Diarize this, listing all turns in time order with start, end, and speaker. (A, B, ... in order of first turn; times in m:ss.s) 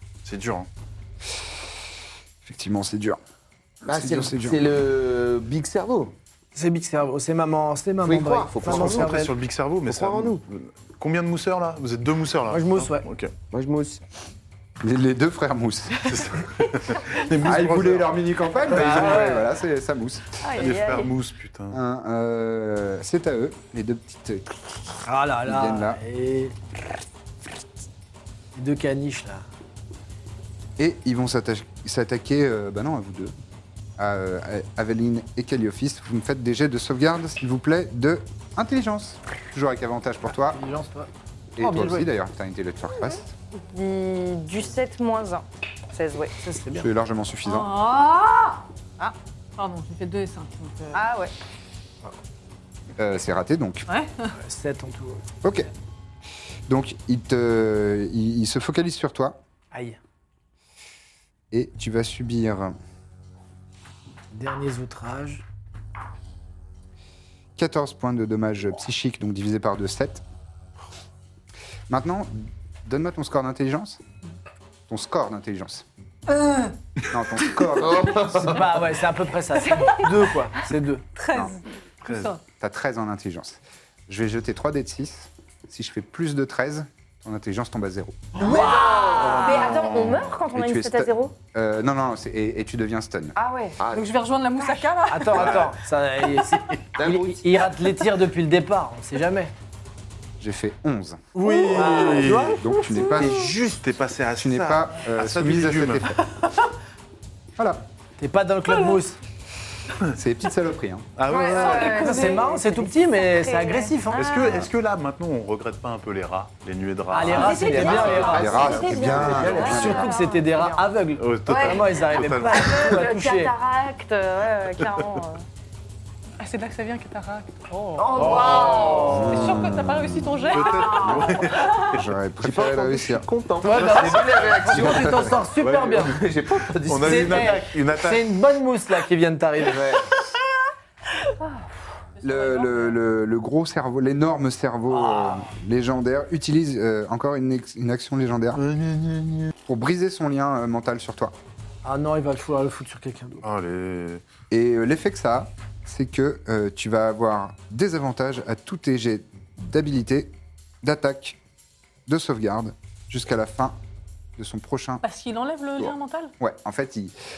0:00.2-0:00.7 A
0:02.4-0:03.2 B
0:03.8-0:04.6 B
0:03.8-0:06.1 C
0:06.5-0:09.3 D
0:08.0-0:09.3 C
0:08.6-0:13.3 A
0:09.8-0:10.4 C
0:12.5-0:13.0 D
0:13.5-0:14.0 C
0:14.8-0:16.2 B
0:16.0-0:18.1 A
0:17.4-0:20.2 B
0:18.7-0:19.5 D
0:20.4-0:21.1 E
0:20.6-0:21.8 A
0:21.7-0:26.0 B
0:25.0-0:26.5 D
0:28.5-0:29.4 D
0:30.8-0:33.3 B
0:34.0-0:40.6 B
0:40.4-0:41.1 D
0:41.6-0:43.3 B
0:41.6-0:42.1 D
0:43.7-0:46.3 E
0:46.4-0:46.9 D
0:46.8-0:47.7 B
0:47.4-0:51.0 F
0:50.9-0:51.3 E
0:53.0-0:53.9 B
0:53.9-0:54.3 F
0:54.4-0:55.2 D
0:55.4-0:55.7 B
0:56.7-0:59.4 B
0:59.7-1:00.0 D
1:01.5-1:02.7 B
1:04.3-1:05.4 D
1:07.6-1:10.2 B
1:11.9-1:14.0 B
1:14.9-1:15.8 B
1:16.3-1:16.7 D
1:17.1-1:18.6 B
1:17.7-1:18.9 C
1:18.4-1:21.0 D
1:19.6-1:20.3 F
1:21.1-1:22.4 F
1:22.0-1:22.3 A
1:22.6-1:28.3 B
1:28.4-1:29.8 C
1:28.4-1:31.3 E
1:28.4-1:29.4 D
1:29.1-1:30.3 A
1:30.5-1:33.3 B
1:33.4-1:33.8 E
1:33.8-1:34.1 C
1:33.9-1:35.5 F
1:35.1-1:39.5 D
1:35.3-1:35.8 A
1:37.0-1:37.7 C
1:40.4-1:41.3 B
1:41.3-1:43.8 D
1:41.4-1:42.6 A
1:42.4-1:43.4 B
1:43.2-1:46.1 A
1:44.4-1:46.2 B
1:47.6-1:47.8 B
1:48.2-1:49.2 D
1:50.1-1:51.1 B
1:51.2-1:52.1 A
1:51.3-1:53.9 E
1:51.5-1:52.8 F
1:51.7-1:54.3 D
1:54.1-1:58.4 A
1:57.1-1:58.6 D
1:57.3-2:00.8 E
1:57.6-2:00.2 C
1:58.2-2:00.1 B
1:59.3-2:03.5 D
2:01.2-2:03.0 A
2:01.4-2:05.4 E
2:06.4-2:11.3 F
2:08.0-2:09.4 E
2:08.1-2:09.2 A
2:08.3-2:08.9 C
2:09.0-2:13.3 B
2:10.5-2:12.1 A
2:10.6-2:11.6 E
2:12.4-2:17.6 C
2:13.6-2:16.2 D
2:13.7-2:14.7 A
2:14.8-2:15.4 B
2:15.6-2:16.1 A
2:16.8-2:18.3 A
2:17.0-2:19.9 D
2:19.6-2:20.1 C
2:22.2-2:23.0 F
2:22.2-2:28.6 B
2:24.9-2:25.4 D
2:28.5-2:29.5 A
2:29.6-2:31.3 B
2:31.8-2:33.4 D
2:33.4-2:34.2 A
2:34.5-2:41.4 B
2:42.1-2:43.8 B
2:44.4-2:45.0 B
2:45.0-2:46.3 F
2:45.8-2:47.2 B